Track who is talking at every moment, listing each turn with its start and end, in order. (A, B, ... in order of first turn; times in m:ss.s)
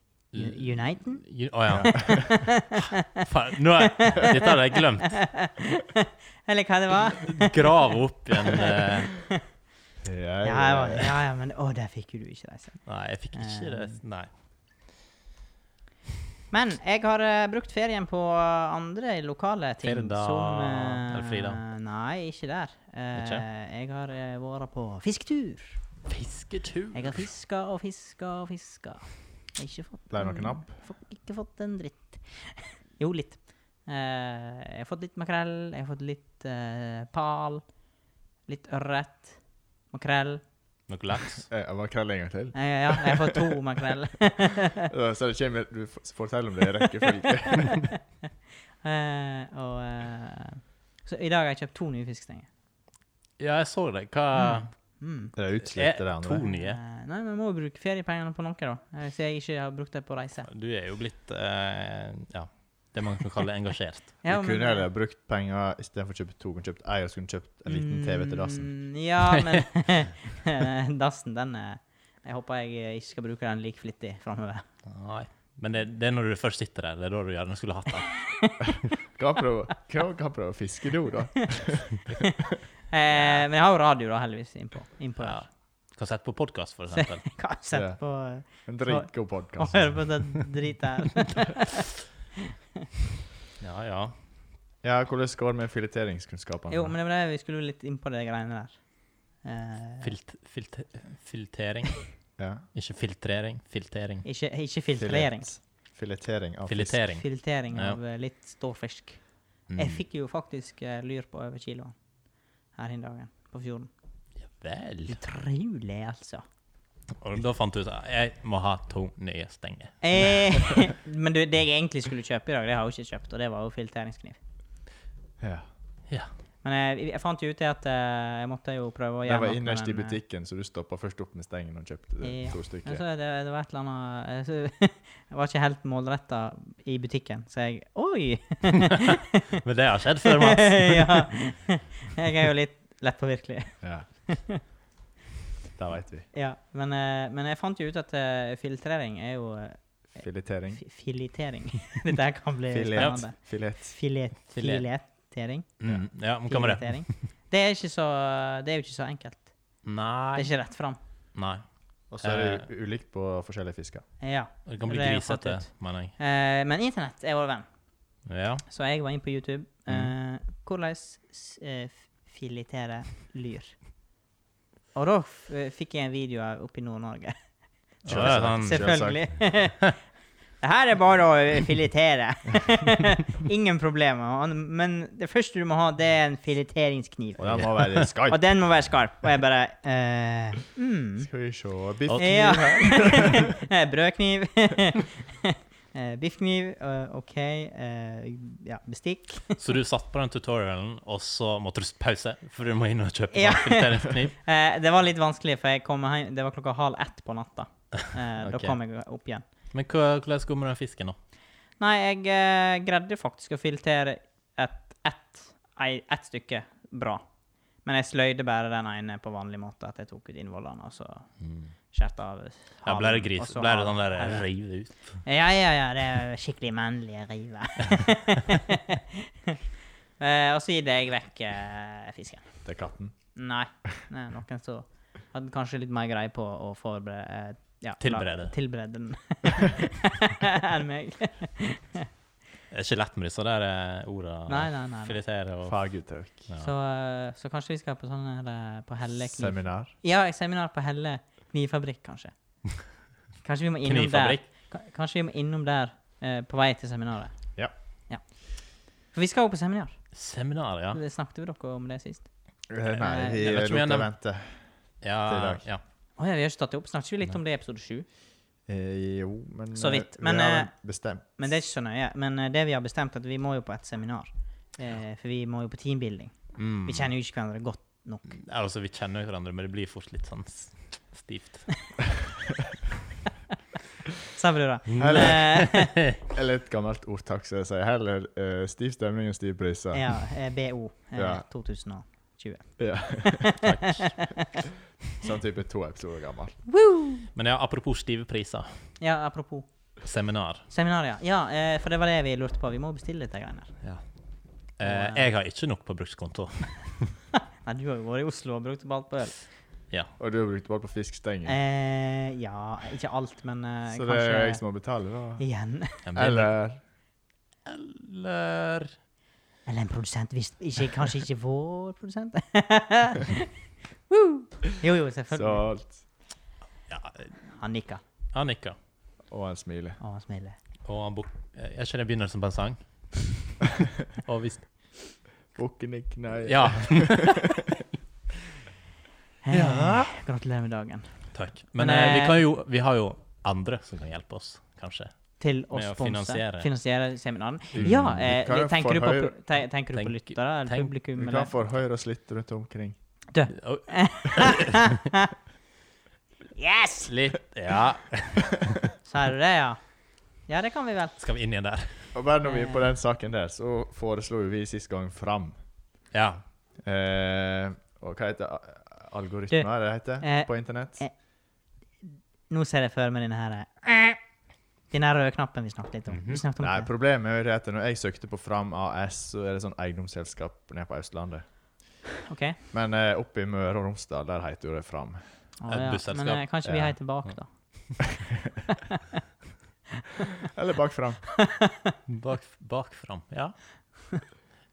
0:00.3-0:05.4 A
0:00.4-0:03.2 B
0:01.7-0:02.1 C
0:03.8-0:04.5 B
0:05.1-0:07.9 B
0:07.2-0:09.2 A
0:10.0-0:11.1 C
0:10.4-0:14.0 B
0:12.9-0:14.3 A
0:16.5-0:25.8 B
0:19.8-0:21.6 A
0:23.2-0:23.4 A
0:26.1-0:27.2 A
0:26.9-0:37.7 B
0:30.1-0:30.8 C
0:38.5-0:40.4 B
0:40.9-0:41.5 A
0:41.5-0:43.3 C
0:42.5-0:44.9 B
0:44.8-0:47.9 C
0:47.6-0:48.0 B
0:48.8-0:52.5 B
0:53.4-0:54.8 A
0:54.4-0:55.3 B
0:55.4-0:56.5 C
0:55.7-0:56.8 A
0:56.4-1:00.5 B
1:00.5-1:04.2 A
1:04.2-1:04.9 B
1:04.3-1:08.9 C
1:07.7-1:14.6 B
1:14.9-1:18.3 A
1:18.2-1:18.6 B
1:19.1-1:22.1 C
1:22.9-1:25.5 B
1:23.2-1:23.4 A
1:25.2-1:27.4 A
1:26.9-1:31.8 B
1:27.7-1:30.2 C
1:33.6-1:34.2 A
1:34.8-1:36.9 C
1:36.7-1:40.1 B
1:40.0-1:44.2 A
1:42.4-1:42.6 C
1:44.2-1:45.5 B
1:45.0-1:47.0 C
1:46.7-1:48.0 A
1:47.2-1:52.0 B
1:49.7-1:50.0 A
1:52.7-1:53.9 B
1:54.4-1:55.2 A
1:55.1-1:56.4 B
1:57.2-2:00.4 A
2:00.0-2:04.4 B
2:05.4-2:05.7 C
2:06.6-2:10.2 B
2:09.3-2:13.0 C
2:12.2-2:19.4 B
2:19.6-2:21.3 A
2:20.2-2:24.6 B
2:23.8-2:24.1 C
2:25.8-2:26.3 C
2:26.3-2:35.7 B
2:30.2-2:30.8 C
2:32.7-2:34.0 C
2:33.0-2:33.2 A
2:34.5-2:34.9 A
2:35.8-2:37.2 A
2:36.4-2:39.6 B
2:39.8-2:40.5 A
2:40.4-2:41.0 B
2:41.4-2:41.6 A
2:42.1-2:44.1 C
2:42.2-2:42.6 A
2:44.2-2:47.7 B
2:44.7-2:46.1 A
2:48.3-2:48.6 A
2:48.7-2:53.8 B
2:55.0-2:57.4 B
2:58.0-3:00.0 B
2:58.0-2:59.2 A
2:58.1-2:59.2 C
3:00.6-3:11.3 B
3:07.4-3:08.4 C
3:11.2-3:13.5 C
3:12.1-3:12.9 A
3:12.1-3:19.6 B
3:19.6-3:24.4 A
3:23.3-3:29.4 B
3:28.4-3:28.8 A
3:29.7-3:31.2 A
3:31.8-3:37.2 B
3:37.8-3:41.4 B
3:41.4-3:41.7 A
3:41.9-3:44.5 B
3:42.8-3:45.2 A
3:45.2-3:49.6 B
3:50.2-3:52.5 B
3:52.6-3:53.2 C
3:53.4-4:02.1 B
3:58.0-3:58.5 A
4:02.7-4:05.9 A
4:04.5-4:05.2 B
4:05.6-4:06.5 C
4:06.5-4:06.7 A
4:06.6-4:12.3 B
4:09.2-4:09.9 C
4:13.4-4:17.5 B
4:13.8-4:14.4 A
4:18.1-4:20.0 B
4:20.1-4:21.0 A
4:20.9-4:22.3 B
4:22.7-4:24.7 C
4:23.0-4:23.4 B
4:23.3-4:24.1 A
4:25.0-4:25.8 A
4:25.3-4:25.6 C
4:26.2-4:28.1 B
4:28.7-4:31.4 C
4:29.8-4:30.7 B
4:31.4-4:38.3 B
4:36.6-4:37.1 A
4:38.3-4:42.1 A
4:44.3-4:46.0 B
4:44.9-4:46.0 A
4:45.0-4:50.1 C
4:49.9-4:54.6 B
4:51.2-4:51.4 C
4:52.8-4:53.5 C
4:53.6-4:54.3 A
4:55.2-4:56.6 C
4:56.7-4:57.3 B
4:57.4-4:58.7 A
4:59.0-4:59.7 B
5:00.0-5:00.7 A
5:00.7-5:03.8 B
5:04.8-5:07.1 A
5:04.8-5:05.3 B
5:07.6-5:09.5 B
5:10.2-5:11.6 C
5:11.4-5:14.6 B
5:13.9-5:15.4 C
5:15.4-5:16.0 B
5:16.1-5:16.5 A
5:16.2-5:16.8 C
5:17.7-5:19.0 A
5:19.7-5:23.5 B
5:24.1-5:25.7 B
5:25.3-5:26.0 C
5:26.9-5:27.3 A
5:27.6-5:28.0 B
5:28.3-5:28.8 A
5:29.3-5:30.0 C
5:30.0-5:30.6 B
5:30.8-5:35.2 A
5:35.5-5:37.4 C
5:36.4-5:37.6 A
5:39.4-5:42.4 B
5:39.5-5:40.1 A
5:41.3-5:45.2 A
5:45.4-5:51.5 B
5:45.7-5:46.7 A
5:47.7-5:49.4 C
5:47.8-5:48.0 A
5:49.9-5:50.9 A
5:51.2-5:53.0 C
5:53.3-5:55.3 B
5:53.5-5:54.9 A
5:56.6-5:57.1 B
5:57.1-5:58.9 A
5:59.0-5:59.8 B
6:00.4-6:01.2 B
6:01.2-6:02.1 A
6:02.1-6:05.6 C
6:02.4-6:02.9 B
6:06.1-6:06.4 A
6:06.8-6:11.0 C
6:10.2-6:11.1 B
6:12.5-6:14.2 B
6:14.9-6:16.9 B
6:16.1-6:16.4 A
6:16.6-6:21.5 C
6:22.3-6:22.6 B
6:22.7-6:25.2 C
6:25.6-6:28.0 B
6:25.7-6:26.4 A
6:26.6-6:27.0 C
6:30.5-6:31.2 C
6:31.4-6:31.9 B
6:32.1-6:33.6 A